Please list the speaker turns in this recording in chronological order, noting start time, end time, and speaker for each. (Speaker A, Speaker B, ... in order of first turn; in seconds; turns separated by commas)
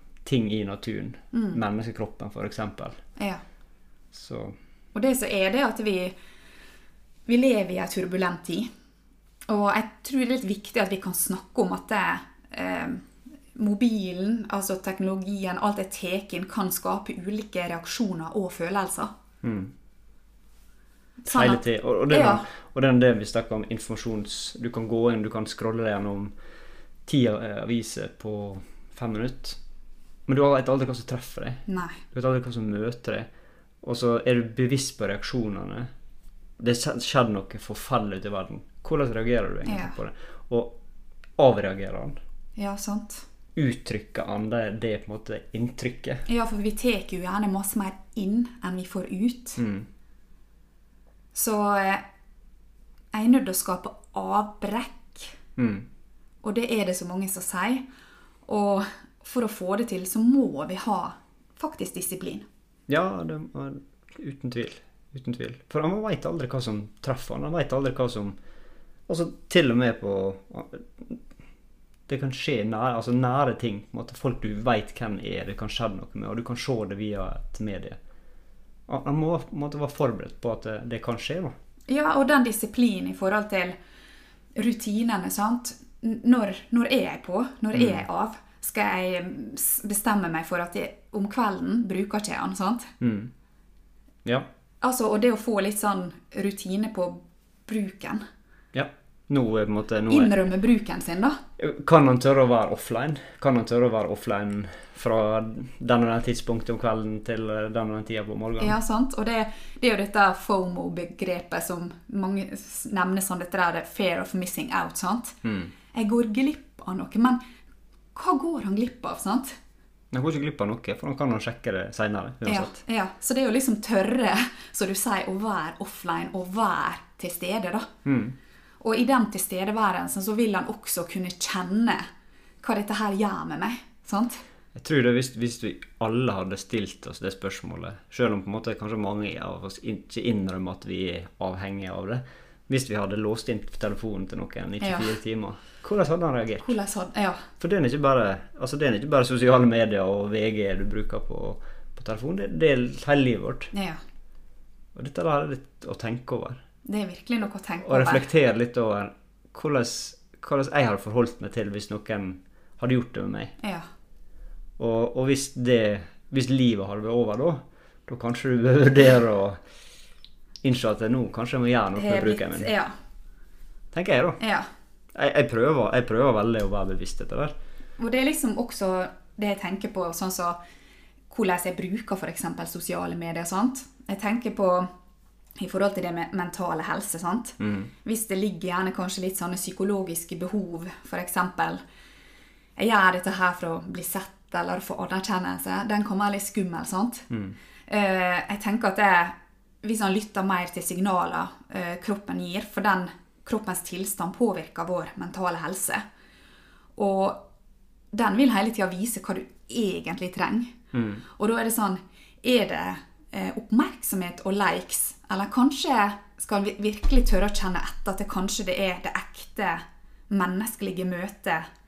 Speaker A: 0.2-3.0, Speaker B: 1.3-1.6, Speaker B: 3.2-3.4, Speaker A: 4.1-4.5, Speaker B: 4.9-6.2, Speaker B: 7.3-8.7, Speaker B: 9.5-19.1, Speaker A: 19.4-19.7, Speaker B: 21.2-22.4, Speaker A: 21.3-26.3, Speaker A: 27.1-29.6, Speaker A: 30.3-33.3, Speaker B: 31.7-32.0, Speaker A: 33.8-35.9, Speaker A: 36.6-40.8, Speaker B: 39.6-40.0, Speaker A: 41.4-42.2, Speaker B: 42.6-43.2, Speaker A: 43.6-46.2, Speaker B: 46.3-49.6, Speaker A: 49.6-49.9, Speaker B: 51.3-52.0, Speaker B: 53.1-55.4, Speaker A: 55.6-55.9, Speaker B: 56.4-57.9, Speaker B: 58.5-62.5, Speaker A: 62.9-68.4, Speaker A: 69.1-71.2, Speaker A: 72.1-78.0, Speaker A: 78.9-81.5, Speaker B: 81.9-83.8, Speaker B: 84.6-92.9, Speaker A: 87.7-88.0, Speaker A: 93.0-93.3, Speaker B: 94.8-98.2, Speaker A: 98.7-100.3, Speaker B: 100.1-101.4, Speaker A: 101.6-108.8, Speaker B: 108.6-115.4, Speaker A: 115.4-115.7, Speaker B: 115.9-117.4, Speaker B: 118.1-119.6, Speaker A: 120.1-122.8, Speaker B: 122.4-127.9, Speaker A: 128.1-128.4, Speaker B: 128.8-132.1, Speaker B: 132.6-134.4, Speaker A: 134.7-146.7, Speaker B: 144.8-145.1, Speaker B: 146.6-147.5, Speaker A: 147.6-153.7, Speaker B: 153.7-154.0, Speaker A: 154.9-156.6, Speaker B: 156.8-158.2, Speaker A: 157.8-163.6, Speaker B: 163.6-163.9, Speaker A: 164.8-169.6, Speaker A: 170.6-172.7, Speaker B: 171.9-172.9, Speaker A: 173.9-174.4, Speaker B: 174.4-174.7, Speaker A: 175.1-177.5, Speaker B: 178.0-180.6, Speaker B: 181.3-184.9, Speaker B: 185.6-191.8, Speaker A: 187.6-187.9, Speaker B: 192.8-197.3, Speaker B: 197.9-206.0, Speaker B: 207.0-207.4, Speaker B: 208.1-210.8, Speaker A: 210.9-211.2, Speaker B: 211.3-221.7